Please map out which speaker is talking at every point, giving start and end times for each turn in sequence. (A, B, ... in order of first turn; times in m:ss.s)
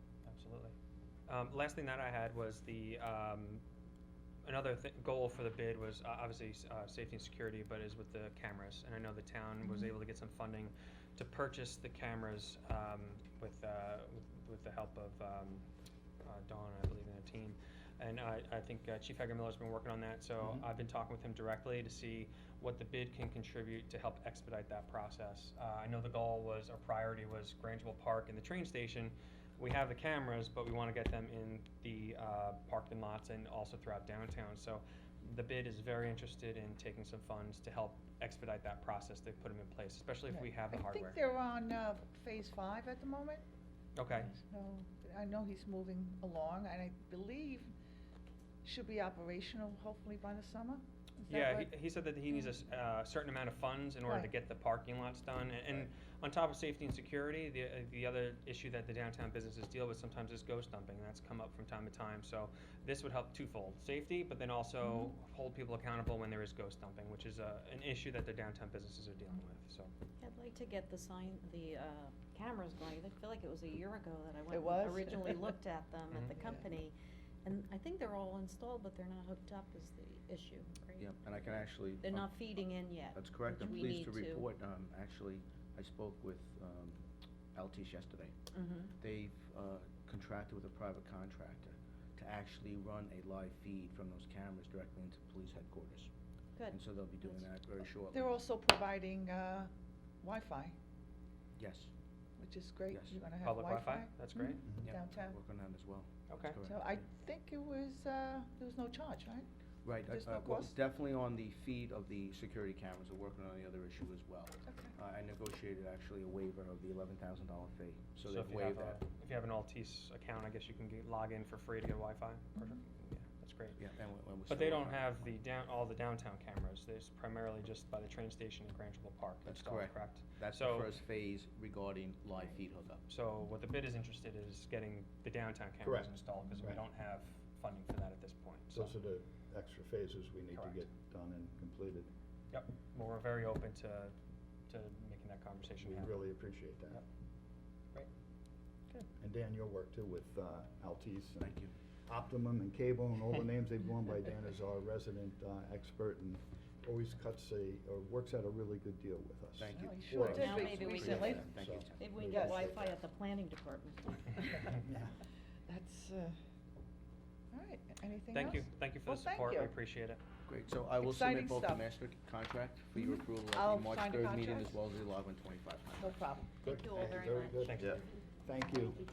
0:00.2-0:00.7 A
0:01.3-0:03.6 A
0:04.4-0:15.6 A
0:16.2-0:41.2 A
0:20.4-0:20.6 B
0:40.3-0:43.4 C
0:44.0-0:44.3 A
0:44.2-0:47.7 C
0:48.6-0:51.7 C
0:51.3-1:09.9 A
1:10.2-1:16.9 D
1:14.5-1:15.6 C
1:17.4-1:24.5 D
1:21.0-1:22.4 E
1:23.1-1:27.0 E
1:27.5-1:28.4 E
1:28.5-1:28.9 D
1:29.0-1:36.1 E
1:36.6-1:36.8 D
1:36.7-1:38.4 E
1:38.1-1:40.8 C
1:41.6-1:41.9 E
1:42.4-1:45.4 C
1:42.9-1:43.3 E
1:43.4-1:44.7 A
1:44.7-1:44.9 B
1:44.8-1:47.0 E
1:46.3-1:46.6 A
1:46.7-1:49.5 C
1:49.8-1:59.0 E
1:50.0-1:50.7 C
1:54.6-1:54.9 C
1:58.2-2:03.9 A
2:03.8-2:05.2 E
2:04.5-2:10.9 A
2:09.5-2:13.0 E
2:13.1-2:18.9 A
2:15.8-2:16.8 B
2:18.7-2:22.1 B
2:20.5-2:20.9 A
2:22.5-2:24.2 A
2:24.7-2:26.3 A
2:25.8-2:27.0 B
2:29.2-2:31.5 B
2:31.4-2:31.7 E
2:32.1-2:42.8 B
2:39.6-2:42.8 E
2:39.7-2:41.3 C
2:40.4-2:44.6 D
2:44.8-2:45.1 B
2:45.7-2:46.4 C
2:47.5-2:49.7 C
2:48.3-2:50.2 A
2:50.5-2:56.3 E
2:51.0-2:51.8 C
2:53.0-2:54.8 C
2:56.0-2:56.6 C
2:56.6-2:57.8 D
2:56.6-2:59.0 B
2:57.6-2:58.0 A